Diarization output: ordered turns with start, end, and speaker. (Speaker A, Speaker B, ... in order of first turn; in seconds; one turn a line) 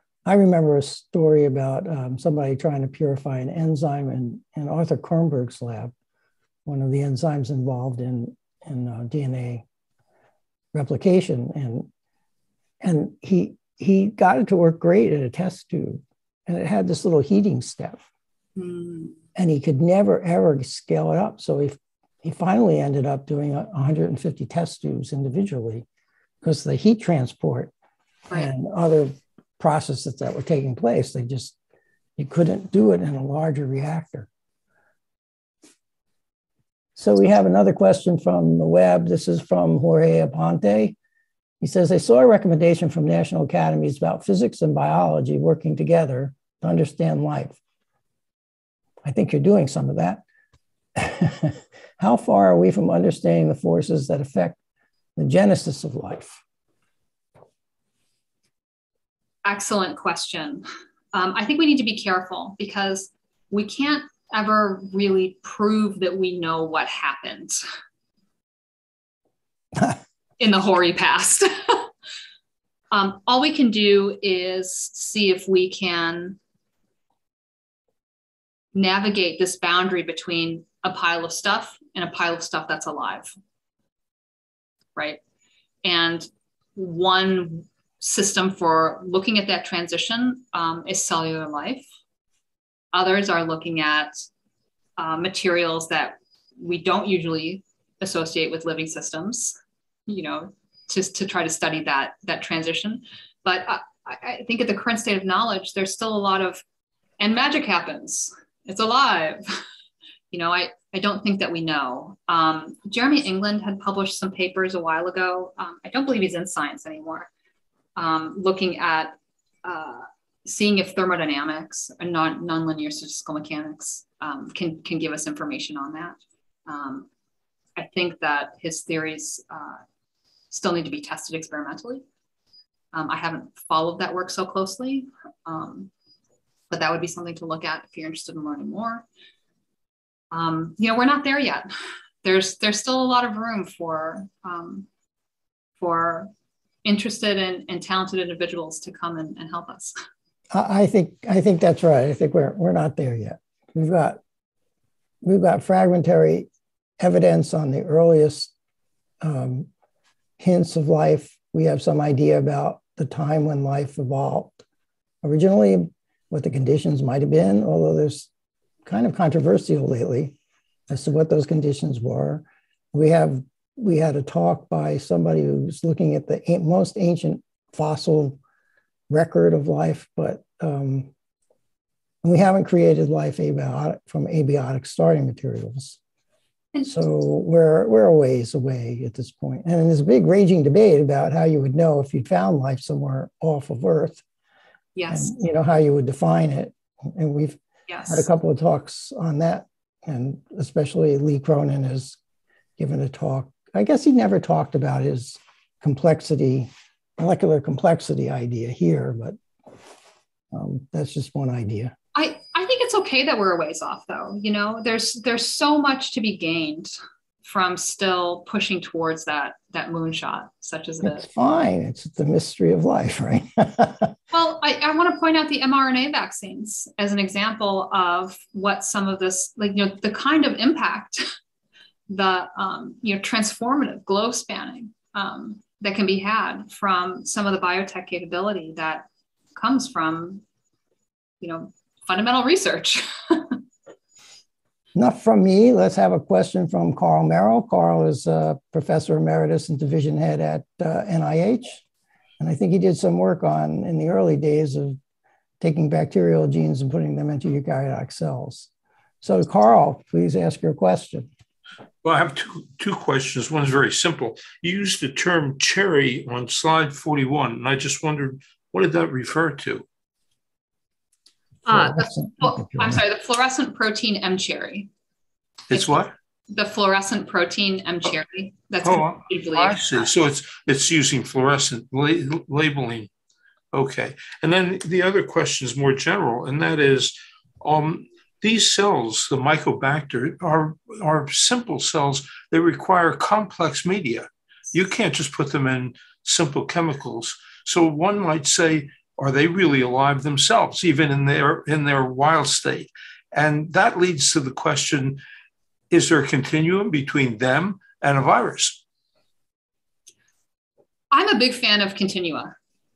Speaker A: 0.2-5.9
Speaker A: 6.7-9.6
Speaker A: 10.7-11.9
Speaker A: 12.8-18.0
Speaker B: 18.6-19.1
Speaker A: 19.3-25.8
Speaker A: 26.4-27.7
Speaker A: 28.3-31.5
Speaker A: 32.2-34.3
Speaker A: 37.0-41.0
Speaker A: 41.6-47.6
Speaker A: 49.0-50.2
Speaker A: 51.0-54.6
Speaker A: 55.2-56.4
Speaker B: 59.4-67.6
Speaker B: 70.4-71.9
Speaker B: 72.9-76.4
Speaker B: 78.7-83.3
Speaker B: 85.8-91.8
Speaker B: 92.9-94.2
Speaker B: 95.0-106.6
Speaker B: 107.2-109.6
Speaker B: 110.3-117.3
Speaker B: 118.0-127.1
Speaker B: 127.8-129.8
Speaker B: 130.5-132.0
Speaker B: 132.9-135.9
Speaker B: 136.7-139.1
Speaker B: 140.3-141.7
Speaker B: 142.2-144.8
Speaker B: 145.8-146.3
Speaker B: 146.8-149.9
Speaker A: 150.5-154.2
Speaker A: 155.2-156.5
Speaker A: 157.0-158.5
Speaker A: 159.2-159.7
Speaker A: 160.4-164.6
Speaker A: 165.2-168.3
Speaker A: 168.8-170.3
Speaker A: 170.9-178.4
Speaker A: 179.1-181.1
Speaker A: 182.2-186.0
Speaker B: 186.7-187.0
Speaker A: 186.8-194.2
Speaker B: 194.9-195.3
Speaker A: 195.1-202.2
Speaker B: 197.9-198.3
Speaker A: 202.8-209.4
Speaker A: 210.5-211.9
Speaker B: 212.1-221.2
Speaker A: 221.0-224.1
Speaker B: 224.3-231.2
Speaker B: 232.1-240.4
Speaker B: 241.4-243.6
Speaker A: 244.9-251.8
Speaker A: 252.4-255.0
Speaker A: 255.6-258.7
Speaker A: 259.2-261.3
Speaker C: 262.0-269.8
Speaker B: 271.6-274.9
Speaker A: 271.7-273.0
Speaker C: 275.7-276.1
Speaker B: 276.5-280.1
Speaker C: 278.8-283.1
Speaker C: 283.7-305.2
Speaker C: 305.9-308.8
Speaker B: 311.1-312.6